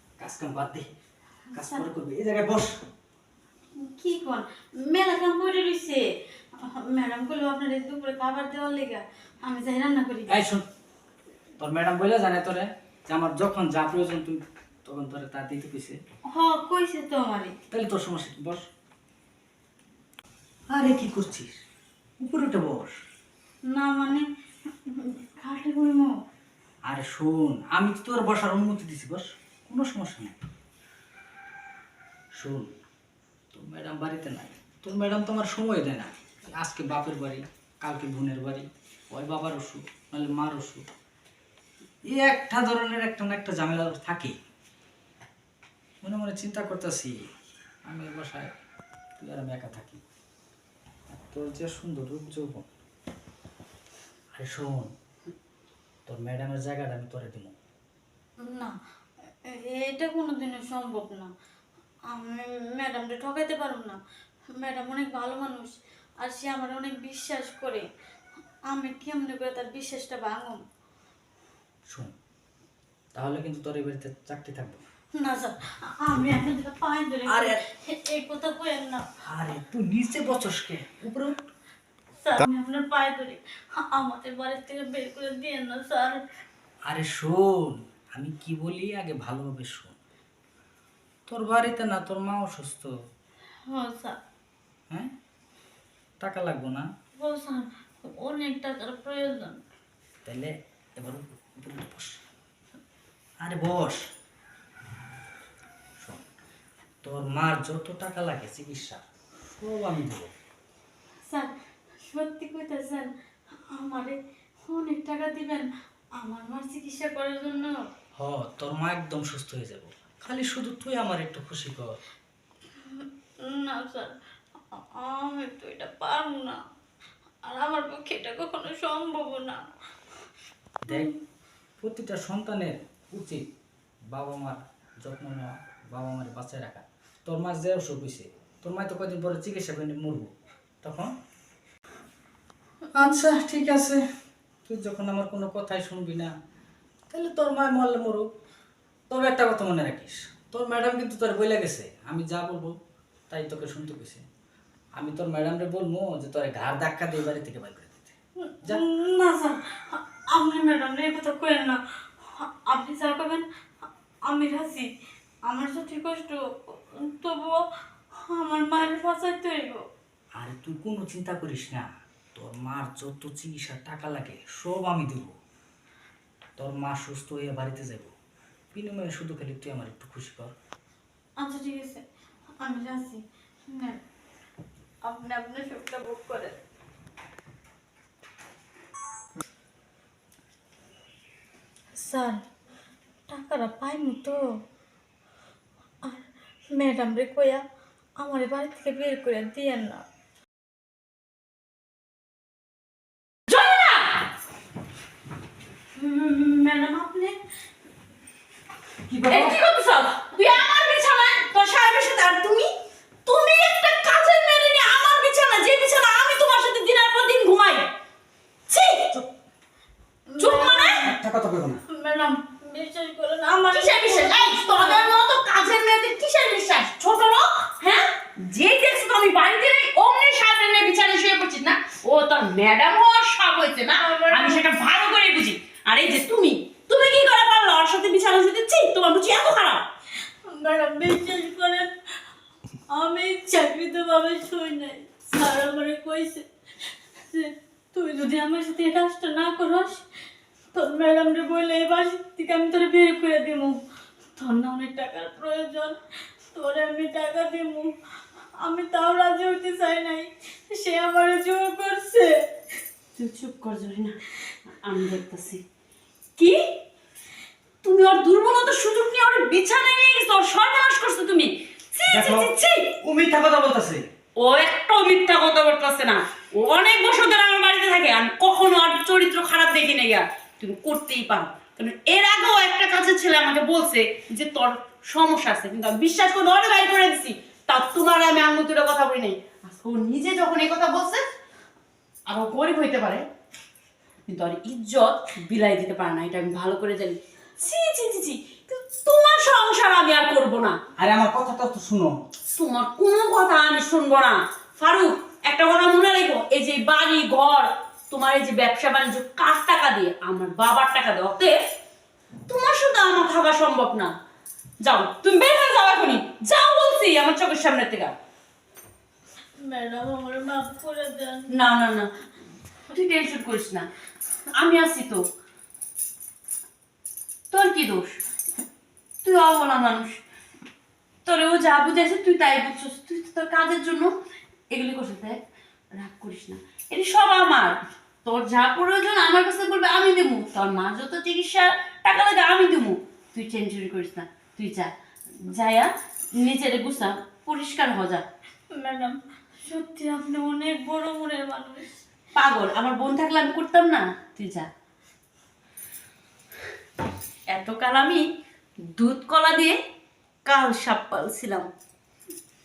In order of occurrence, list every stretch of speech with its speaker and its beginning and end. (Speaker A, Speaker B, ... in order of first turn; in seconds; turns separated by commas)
Speaker A: 0.2-0.9, Speaker B: 1.5-1.8, Speaker A: 1.5-2.8, Speaker B: 3.8-6.0, Speaker B: 6.6-10.4, Speaker A: 10.3-10.6, Speaker A: 11.6-16.0, Speaker B: 16.3-17.5, Speaker A: 17.7-18.6, Speaker A: 20.7-21.5, Speaker A: 22.2-23.0, Speaker B: 23.7-24.2, Speaker B: 24.9-26.1, Speaker A: 26.9-30.4, Speaker A: 32.4-32.7, Speaker A: 33.5-40.8, Speaker A: 42.1-44.4, Speaker A: 46.0-47.2, Speaker A: 47.9-48.5, Speaker A: 49.2-50.0, Speaker A: 51.1-52.7, Speaker A: 54.3-54.9, Speaker A: 56.0-57.5, Speaker B: 58.5-58.7, Speaker B: 59.5-61.3, Speaker B: 62.1-64.0, Speaker B: 64.6-67.8, Speaker B: 68.7-70.6, Speaker A: 73.1-74.8, Speaker B: 75.2-79.0, Speaker A: 77.3-77.6, Speaker A: 79.3-81.4, Speaker B: 82.2-86.2, Speaker A: 86.9-90.0, Speaker A: 91.3-92.9, Speaker B: 93.7-94.2, Speaker A: 96.2-96.9, Speaker B: 97.2-99.6, Speaker A: 100.2-102.2, Speaker A: 103.4-104.0, Speaker A: 107.0-110.3, Speaker B: 112.0-113.1, Speaker B: 113.7-114.2, Speaker B: 114.7-115.7, Speaker B: 116.2-117.7, Speaker A: 118.2-122.0, Speaker B: 122.8-124.1, Speaker B: 125.0-126.6, Speaker B: 127.5-129.7, Speaker A: 130.8-131.1, Speaker A: 131.8-133.4, Speaker A: 134.1-140.3, Speaker A: 140.8-141.1, Speaker A: 142.9-144.0, Speaker A: 144.6-146.3, Speaker A: 147.1-148.3, Speaker A: 149.1-152.7, Speaker A: 153.3-154.2, Speaker A: 155.0-158.8, Speaker B: 158.4-163.4, Speaker B: 164.2-164.9, Speaker B: 165.5-167.6, Speaker B: 168.1-169.8, Speaker A: 170.4-175.3, Speaker A: 176.6-178.1, Speaker A: 178.7-180.5, Speaker B: 181.4-182.0, Speaker B: 182.6-184.0, Speaker B: 185.0-186.6, Speaker B: 192.0-192.4, Speaker B: 193.3-194.4, Speaker B: 196.0-197.6, Speaker B: 198.2-200.0, Speaker C: 203.5-204.2, Speaker C: 205.9-207.3, Speaker A: 209.1-209.6, Speaker C: 209.3-212.7, Speaker C: 213.2-217.8, Speaker C: 218.7-219.2, Speaker B: 220.3-221.1, Speaker C: 220.4-221.1, Speaker A: 221.0-221.8, Speaker B: 221.9-225.1, Speaker C: 223.7-239.8, Speaker B: 233.9-234.6, Speaker B: 240.5-241.9, Speaker B: 242.9-246.4, Speaker B: 247.3-250.0, Speaker B: 250.7-253.8, Speaker B: 254.3-256.0, Speaker B: 256.5-257.9, Speaker B: 258.6-262.4, Speaker C: 263.1-264.1, Speaker C: 264.7-265.6, Speaker C: 266.4-266.8, Speaker C: 267.8-273.0, Speaker A: 272.1-274.1, Speaker C: 274.4-291.2, Speaker C: 292.3-293.2, Speaker C: 294.3-300.8, Speaker A: 301.0-302.2, Speaker C: 302.5-311.6, Speaker C: 312.5-314.1, Speaker C: 314.8-318.1, Speaker B: 319.6-321.6, Speaker C: 321.5-322.1, Speaker C: 322.9-323.9, Speaker C: 324.6-325.2, Speaker C: 327.5-328.2, Speaker C: 329.2-330.2, Speaker C: 331.2-334.1, Speaker C: 334.7-335.4, Speaker C: 335.9-344.9, Speaker C: 345.4-348.2, Speaker B: 348.7-351.9, Speaker C: 352.3-354.7, Speaker C: 357.5-358.2, Speaker C: 358.9-359.8, Speaker C: 360.4-361.7